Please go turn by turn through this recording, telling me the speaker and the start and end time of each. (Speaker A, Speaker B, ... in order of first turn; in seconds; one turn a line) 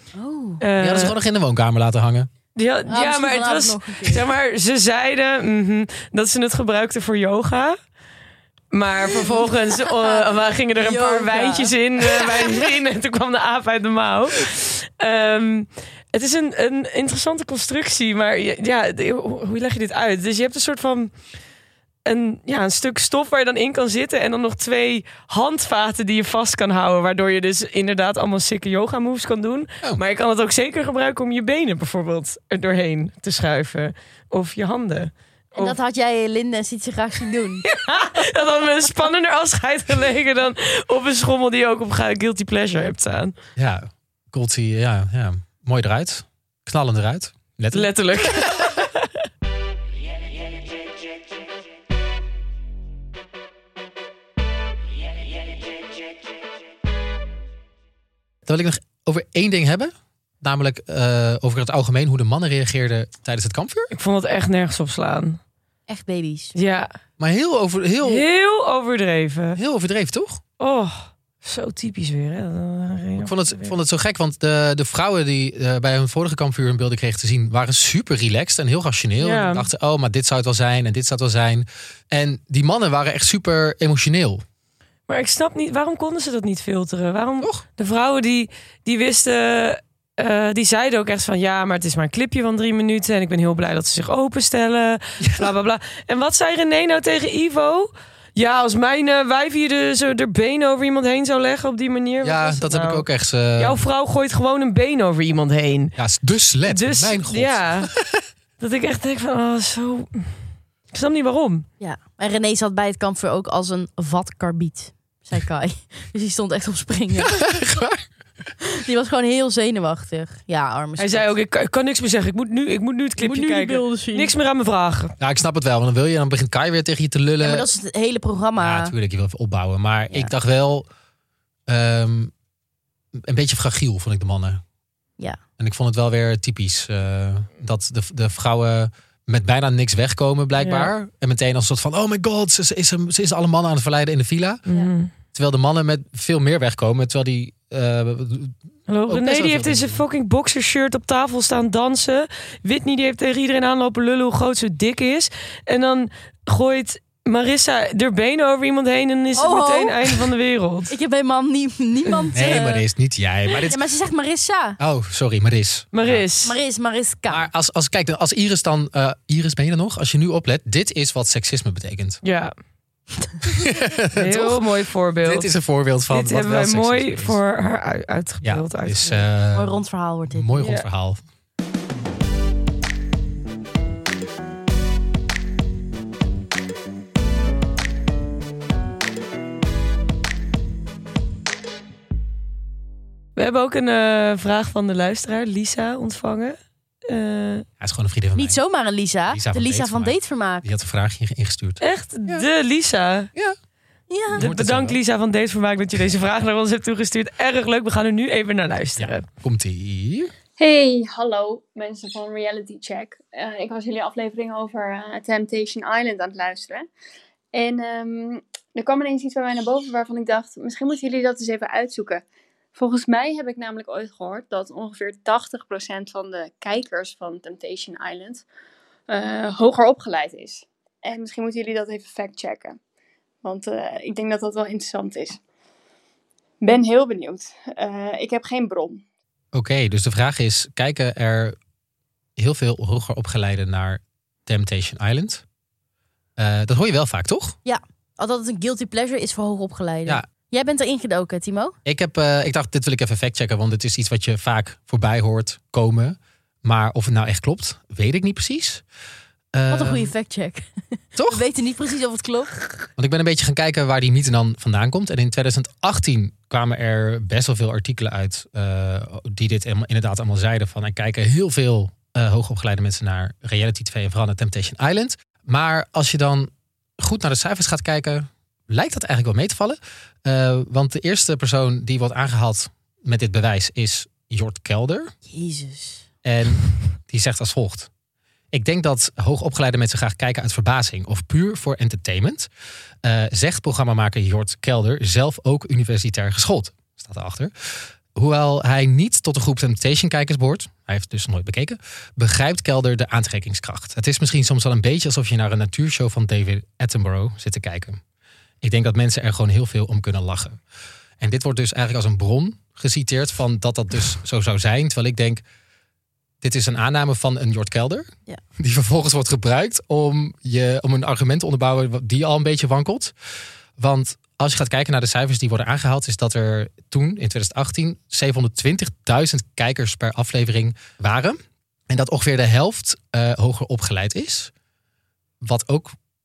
Speaker A: 0.1-0.6
Speaker B: 0.6-1.1
Speaker C: 0.8-2.3
Speaker B: 2.5-7.8
Speaker A: 2.9-4.2
Speaker B: 8.7-21.1
Speaker A: 9.1-12.6
Speaker B: 22.0-35.8
Speaker A: 35.5-37.6
Speaker B: 37.6-43.3
Speaker C: 43.5-48.7
Speaker B: 47.7-49.1
Speaker C: 58.5-63.9
Speaker B: 63.9-65.4
Speaker A: 65.9-66.5
Speaker B: 66.5-66.9
Speaker C: 67.2-68.2
Speaker B: 68.0-69.6
Speaker C: 69.5-70.4
Speaker B: 70.6-73.7
Speaker C: 73.2-84.4
Speaker B: 79.2-79.7
Speaker B: 85.1-103.0
Speaker C: 95.2-95.5
Speaker C: 102.2-103.8
Speaker B: 103.6-105.9
Speaker C: 106.0-108.2
Speaker B: 106.7-107.9
Speaker B: 108.6-110.3
Speaker B: 110.9-111.6
Speaker A: 111.8-117.4
Speaker C: 117.2-118.0
Speaker A: 118.6-121.3
Speaker B: 121.0-125.1
Speaker A: 123.2-124.3
Speaker C: 125.2-127.7
Speaker A: 127.4-128.9
Speaker C: 128.6-130.8
Speaker C: 131.7-132.3
Speaker C: 133.1-134.6
Speaker C: 135.6-144.6
Speaker B: 140.6-140.9
Speaker B: 144.7-145.1
Speaker C: 145.3-148.6
Speaker B: 148.9-160.9
Speaker C: 149.1-150.0
Speaker A: 159.3-160.2
Speaker A: 160.9-162.8
Speaker C: 162.3-163.8
Speaker A: 163.6-164.8
Speaker C: 164.8-166.2
Speaker B: 165.9-166.5
Speaker A: 166.4-167.5
Speaker C: 167.3-172.2
Speaker B: 172.2-172.5
Speaker C: 173.4-174.6
Speaker B: 174.1-175.5
Speaker C: 175.2-177.4
Speaker B: 176.1-179.2
Speaker C: 178.4-179.8
Speaker A: 179.5-180.5
Speaker C: 180.3-181.2
Speaker B: 180.6-180.8
Speaker B: 193.3-196.6
Speaker B: 197.1-197.6
Speaker C: 197.8-198.6
Speaker A: 198.3-200.7
Speaker C: 199.3-202.5
Speaker B: 201.8-203.3
Speaker A: 204.1-204.5
Speaker B: 204.3-209.2
Speaker C: 204.3-205.0
Speaker C: 209.0-210.3
Speaker D: 210.6-216.9
Speaker D: 217.5-222.2
Speaker D: 222.7-228.4
Speaker D: 229.1-232.8
Speaker D: 233.4-235.4
Speaker D: 236.6-239.0
Speaker C: 239.5-241.6
Speaker C: 242.4-245.4
Speaker C: 246.4-247.6
Speaker A: 247.6-251.7
Speaker C: 251.8-258.8
Speaker C: 259.5-260.1
Speaker A: 259.7-260.7
Speaker C: 261.1-261.4
Speaker A: 261.2-262.6
Speaker C: 263.0-285.1
Speaker A: 285.3-286.1
Speaker C: 286.2-287.9
Speaker C: 288.5-292.5
Speaker C: 293.0-308.0
Speaker C: 308.6-310.6
Speaker C: 311.2-315.4
Speaker C: 316.4-323.1
Speaker C: 323.8-331.4
Speaker C: 331.9-334.5
Speaker C: 335.4-335.9